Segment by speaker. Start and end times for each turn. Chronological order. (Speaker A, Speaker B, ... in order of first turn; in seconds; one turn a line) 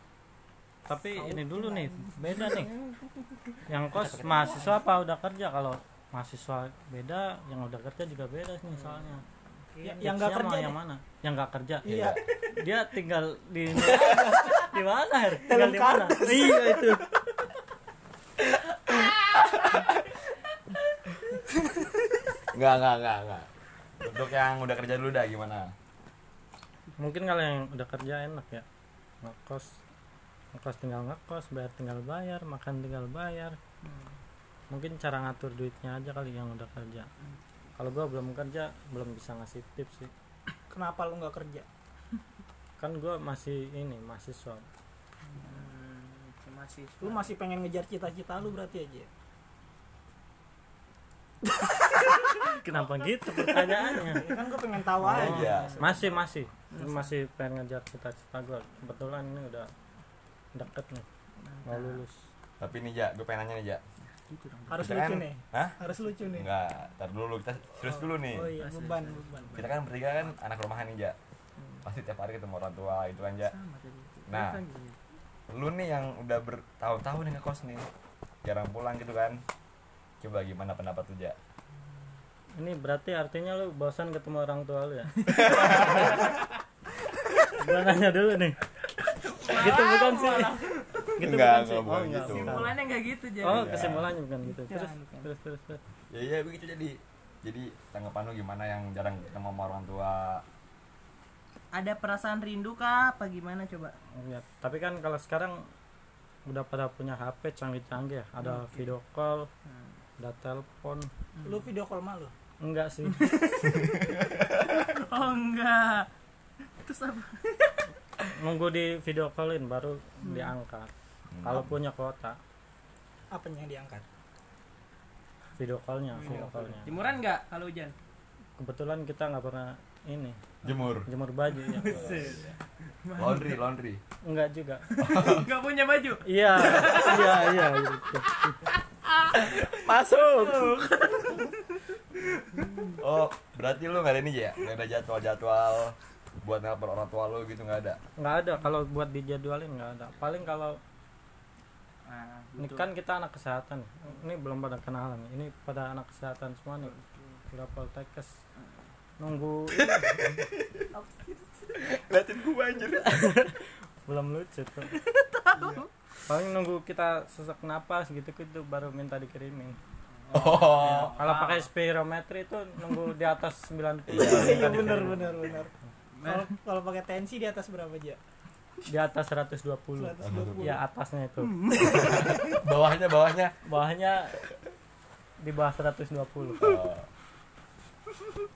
Speaker A: 0.9-2.7
Speaker B: 1.2-1.9
Speaker C: 2.1-3.6
Speaker A: 3.7-9.2
Speaker D: 3.9-4.8
Speaker C: 8.7-10.0
Speaker B: 9.8-10.8
Speaker A: 10.0-11.9
Speaker D: 11.8-12.2
Speaker B: 11.8-12.2
Speaker A: 12.5-17.0
Speaker B: 15.4-17.0
Speaker D: 19.6-19.9
Speaker D: 22.5-23.5
Speaker D: 24.0-25.7
Speaker A: 27.0-28.6
Speaker A: 29.2-29.8
Speaker A: 30.5-33.6
Speaker C: 33.8-34.2
Speaker A: 34.7-37.1
Speaker A: 37.8-40.1
Speaker B: 40.7-41.6
Speaker A: 42.8-44.6
Speaker C: 45.3-47.4
Speaker B: 47.0-49.1
Speaker A: 52.6-54.3
Speaker C: 52.6-54.4
Speaker B: 54.1-56.0
Speaker D: 55.0-56.0
Speaker A: 55.0-59.7
Speaker C: 55.5-56.1
Speaker C: 56.7-57.1
Speaker A: 60.5-61.0
Speaker C: 61.4-62.0
Speaker A: 61.6-62.2
Speaker D: 62.6-63.8
Speaker C: 64.0-64.9
Speaker B: 64.7-66.5
Speaker D: 64.8-65.8
Speaker D: 66.3-68.5
Speaker B: 67.9-69.7
Speaker C: 68.6-69.7
Speaker D: 69.5-71.2
Speaker C: 71.6-71.8
Speaker D: 71.8-73.5
Speaker C: 73.4-75.0
Speaker D: 74.3-74.6
Speaker D: 75.5-77.9
Speaker D: 78.4-79.4
Speaker D: 80.2-81.4
Speaker A: 82.6-86.3
Speaker C: 85.2-86.4
Speaker A: 87.6-88.6
Speaker C: 89.2-91.2
Speaker A: 89.5-90.5
Speaker D: 91.2-92.7
Speaker A: 91.2-92.7
Speaker C: 92.2-95.3
Speaker A: 93.4-95.8
Speaker D: 93.4-94.1
Speaker D: 96.1-100.4
Speaker C: 101.7-103.9
Speaker A: 104.2-105.6
Speaker A: 106.5-109.5
Speaker C: 108.4-108.9
Speaker C: 109.7-110.0
Speaker A: 110.2-111.1
Speaker C: 111.3-111.7
Speaker B: 111.4-112.3
Speaker A: 112.6-113.4
Speaker C: 113.0-114.0
Speaker D: 113.6-114.6
Speaker C: 114.7-116.1
Speaker C: 116.8-117.9
Speaker A: 118.3-120.9
Speaker C: 120.2-120.5
Speaker D: 121.3-121.7
Speaker A: 121.4-122.4
Speaker B: 123.3-124.0
Speaker A: 125.6-127.0
Speaker C: 126.1-127.9
Speaker A: 128.6-130.4
Speaker D: 130.6-131.1
Speaker A: 131.0-132.3
Speaker C: 131.5-133.6
Speaker D: 131.8-132.5
Speaker D: 133.2-134.0
Speaker A: 134.2-134.9
Speaker C: 134.9-137.6
Speaker D: 135.0-135.5
Speaker A: 136.2-138.6
Speaker C: 139.2-143.0
Speaker D: 143.0-148.0
Speaker A: 148.2-150.8
Speaker C: 152.1-152.9
Speaker A: 152.6-156.9
Speaker C: 156.8-157.4
Speaker A: 157.5-158.4
Speaker A: 159.2-160.1
Speaker D: 159.7-160.8
Speaker C: 160.9-162.0
Speaker D: 161.8-163.5
Speaker A: 163.1-164.9
Speaker C: 164.9-165.9
Speaker A: 166.3-169.8
Speaker C: 170.2-171.7
Speaker D: 170.3-171.2
Speaker A: 170.7-175.6
Speaker D: 174.1-174.8
Speaker B: 174.1-175.7
Speaker C: 176.2-176.5
Speaker B: 176.2-178.2
Speaker A: 178.9-181.6
Speaker B: 179.9-180.8
Speaker D: 180.2-180.7
Speaker C: 181.5-182.4
Speaker D: 181.8-183.5
Speaker A: 183.7-184.4
Speaker A: 185.4-186.7
Speaker D: 186.6-187.1